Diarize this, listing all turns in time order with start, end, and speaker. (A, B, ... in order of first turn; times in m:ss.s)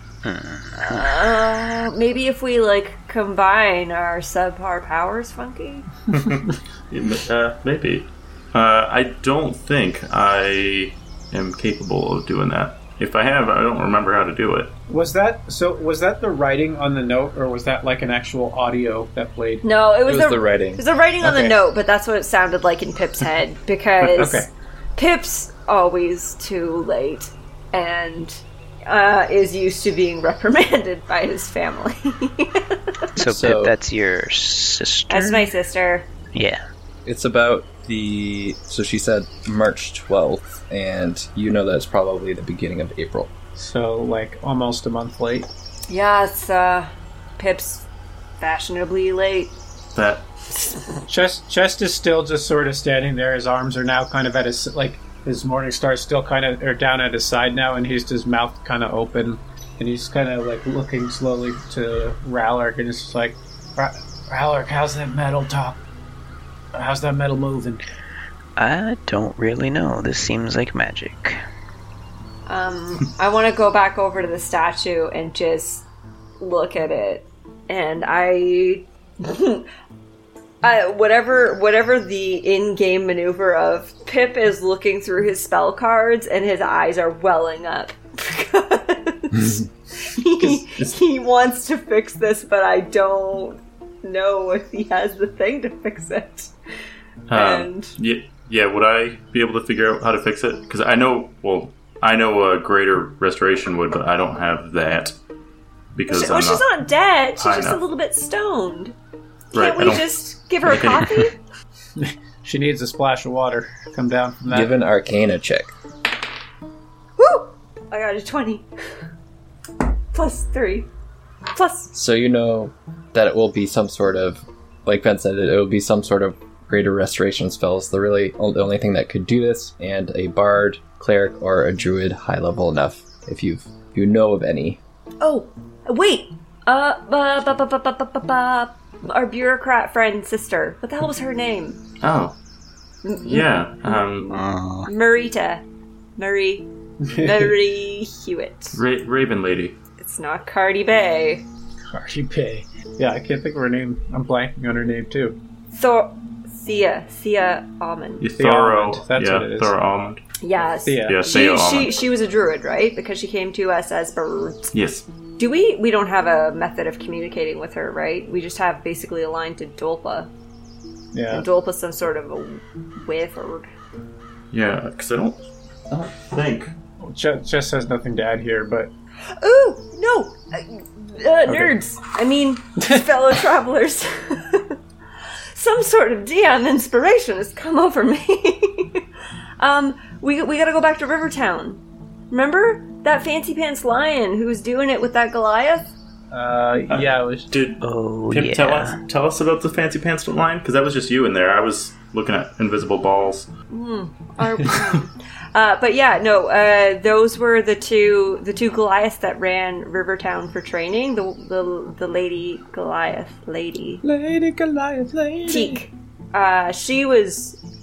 0:00.2-0:01.4 A
0:00.8-0:05.8 B
0:06.1-0:14.7 C
0:14.9-0:19.6 D
0:19.6-0:33.0 B
0:20.0-0:20.8 E
0:21.2-0:21.5 D
0:24.2-0:24.5 D
0:33.2-0:35.5 A
0:33.2-0:33.7 E
0:35.1-0:36.1 B
0:36.3-0:36.6 A
0:37.0-0:43.3 E
0:43.6-0:45.5 D
0:45.9-0:47.9 B
0:48.4-0:49.5 B
0:49.9-0:50.3 C
0:51.1-1:05.8 D
1:06.7-1:07.8 D
1:08.6-1:11.4 A
1:12.5-1:15.8 B
1:16.4-1:19.7 B
1:20.6-1:36.5 B
1:29.3-1:29.7 E
1:37.3-1:45.1 C
1:37.3-1:37.9 B
1:45.9-1:46.6 C
1:46.1-1:48.9 B
1:47.4-1:47.8 C
1:49.5-1:51.4 B
1:49.5-1:50.0 C
1:50.6-1:51.2 C
1:52.0-1:54.7 D
1:54.5-1:55.7 E
1:57.2-1:58.7 B
2:00.1-2:00.9 B
2:01.5-2:01.9 B
2:01.9-2:14.8 E
2:15.2-2:21.8 B
2:22.0-2:22.3 C
2:23.0-2:25.6 B
2:23.2-2:24.3 C
2:24.3-2:24.9 A
2:26.2-2:28.8 B
2:27.0-2:27.6 D
2:28.7-2:29.8 C
2:30.0-2:31.4 B
2:31.9-2:35.4 D
2:35.7-2:38.3 B
2:38.2-2:40.2 C
2:38.4-2:39.7 D
2:40.4-2:44.7 B
2:40.8-2:41.2 D
2:41.0-2:41.9 C
2:44.7-2:45.0 C
2:45.4-2:50.3 B
2:51.1-2:51.4 D
2:51.3-2:53.7 B
2:54.5-2:56.7 C
2:57.0-2:58.9 D
2:59.2-3:04.7 B
3:05.5-3:09.0 B
3:09.6-3:15.9 B
3:16.3-3:17.5 D
3:16.9-3:23.5 C
3:17.8-3:19.0 A
3:23.7-3:34.0 B
3:34.0-3:35.8 D
3:35.4-3:37.6 B